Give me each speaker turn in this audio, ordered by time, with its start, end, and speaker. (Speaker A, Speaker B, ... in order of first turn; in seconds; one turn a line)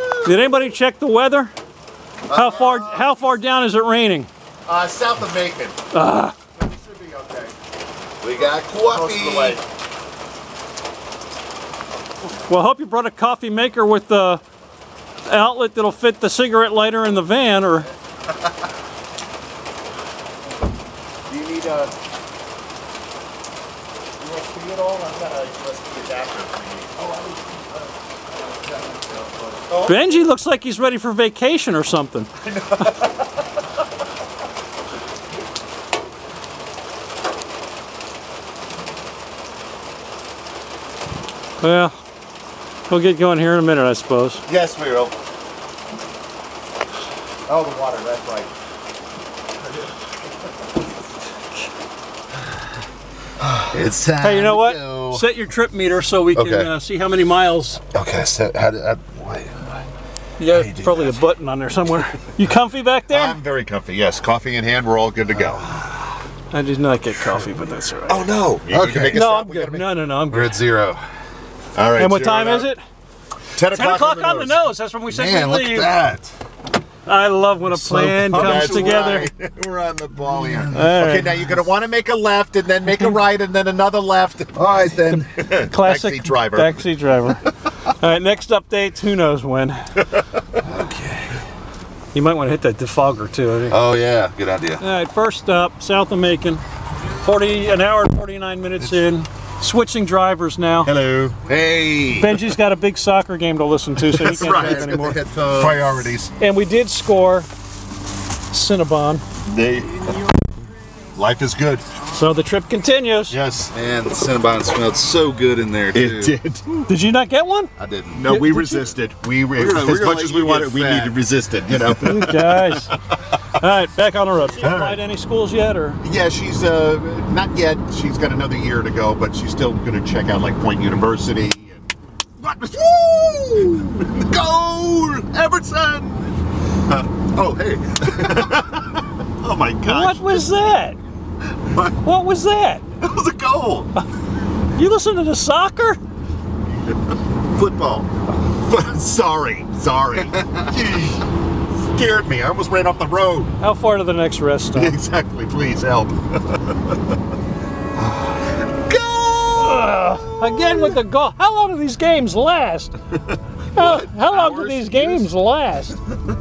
Speaker A: 0.2-1.5
Speaker B: 2.3-3.1
Speaker A: 2.3-4.3
Speaker B: 4.7-5.8
Speaker A: 5.9-6.3
Speaker B: 6.6-7.5
Speaker C: 8.2-9.6
Speaker B: 8.4-9.6
Speaker A: 12.4-14.4
Speaker A: 15.2-17.9
Speaker B: 21.3-21.9
Speaker B: 24.2-27.4
Speaker B: 28.9-30.2
Speaker A: 29.7-32.8
Speaker B: 32.5-32.9
Speaker A: 41.6-42.0
Speaker A: 42.9-44.4
Speaker B: 44.5-45.1
Speaker B: 47.5-48.5
Speaker C: 53.7-55.2
Speaker A: 54.2-57.8
Speaker B: 56.4-56.7
Speaker C: 58.0-59.4
Speaker B: 58.0-59.1
Speaker A: 60.4-63.4
Speaker B: 60.5-61.1
Speaker B: 63.1-65.7
Speaker A: 66.5-68.3
Speaker B: 68.1-70.7
Speaker C: 68.6-69.2
Speaker A: 69.1-70.6
Speaker C: 70.3-71.0
Speaker B: 71.8-72.7
Speaker A: 71.9-72.8
Speaker B: 73.5-74.6
Speaker A: 73.6-75.9
Speaker B: 75.1-76.2
Speaker C: 75.5-75.8
Speaker A: 77.0-79.3
Speaker B: 77.8-79.5
Speaker C: 77.9-81.0
Speaker B: 80.5-86.8
Speaker A: 80.7-81.3
Speaker C: 84.6-85.3
Speaker A: 85.5-89.8
Speaker A: 92.1-93.8
Speaker C: 93.7-94.8
Speaker A: 94.8-96.6
Speaker A: 97.2-100.9
Speaker B: 100.8-101.5
Speaker C: 101.4-102.3
Speaker A: 102.1-105.2
Speaker B: 104.1-106.3
Speaker C: 104.3-106.1
Speaker A: 106.4-107.5
Speaker A: 108.5-109.2
Speaker B: 109.5-110.2
Speaker C: 109.6-110.0
Speaker B: 111.1-111.8
Speaker A: 112.1-113.4
Speaker B: 113.3-113.7
Speaker C: 113.7-116.4
Speaker B: 115.9-116.8
Speaker A: 116.9-117.7
Speaker C: 117.8-118.8
Speaker B: 118.1-122.8
Speaker A: 118.3-118.9
Speaker C: 119.5-122.6
Speaker A: 122.0-126.0
Speaker B: 124.6-125.0
Speaker B: 126.0-131.9
Speaker B: 132.4-136.2
Speaker B: 136.9-140.4
Speaker A: 139.8-141.0
Speaker A: 142.0-142.8
Speaker B: 143.0-143.9
Speaker A: 144.7-146.0
Speaker B: 147.5-151.1
Speaker B: 151.9-153.5
Speaker A: 153.6-155.0
Speaker B: 154.7-156.6
Speaker B: 158.7-160.9
Speaker A: 159.6-162.9
Speaker A: 163.7-166.0
Speaker B: 163.8-165.2